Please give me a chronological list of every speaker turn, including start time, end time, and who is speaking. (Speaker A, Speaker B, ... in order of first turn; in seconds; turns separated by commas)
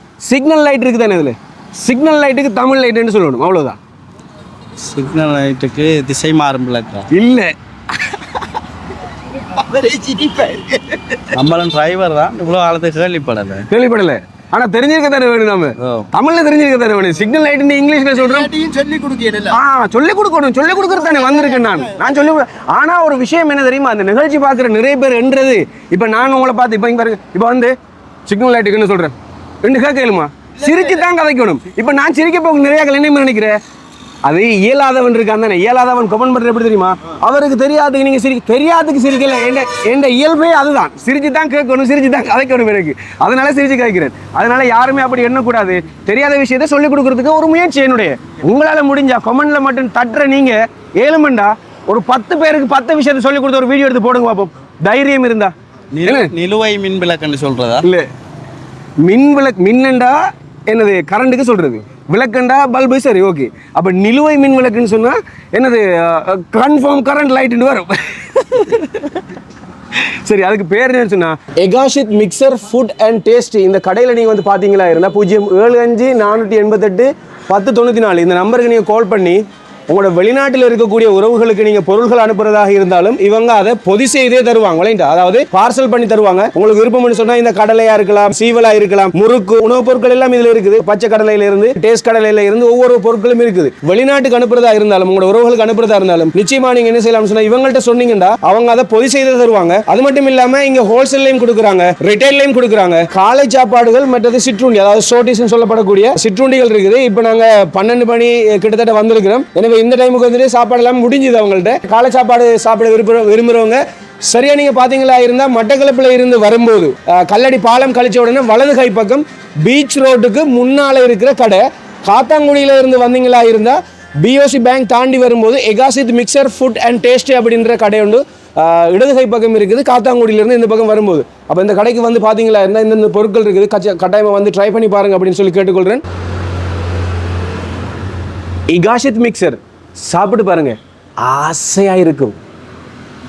Speaker A: 0.2-3.8, Speaker B: 4.8-7.1, Speaker A: 7.1-7.5, Speaker C: 9.5-11.2, Speaker B: 11.3-13.7, Speaker A: 13.7-18.5, Speaker B: 15.8-16.1, Speaker C: 18.3-19.5, Speaker A: 19.5-27.7, Speaker C: 21.3-21.7, Speaker A: 28.3-33.6, Speaker A: 34.2-55.5, Speaker B: 55.9-57.9, Speaker A: 56.0-56.3, Speaker A: 57.8-58.1, Speaker A: 59.0-69.2, Speaker A: 70.2-136.0, Speaker A: 138.7-142.4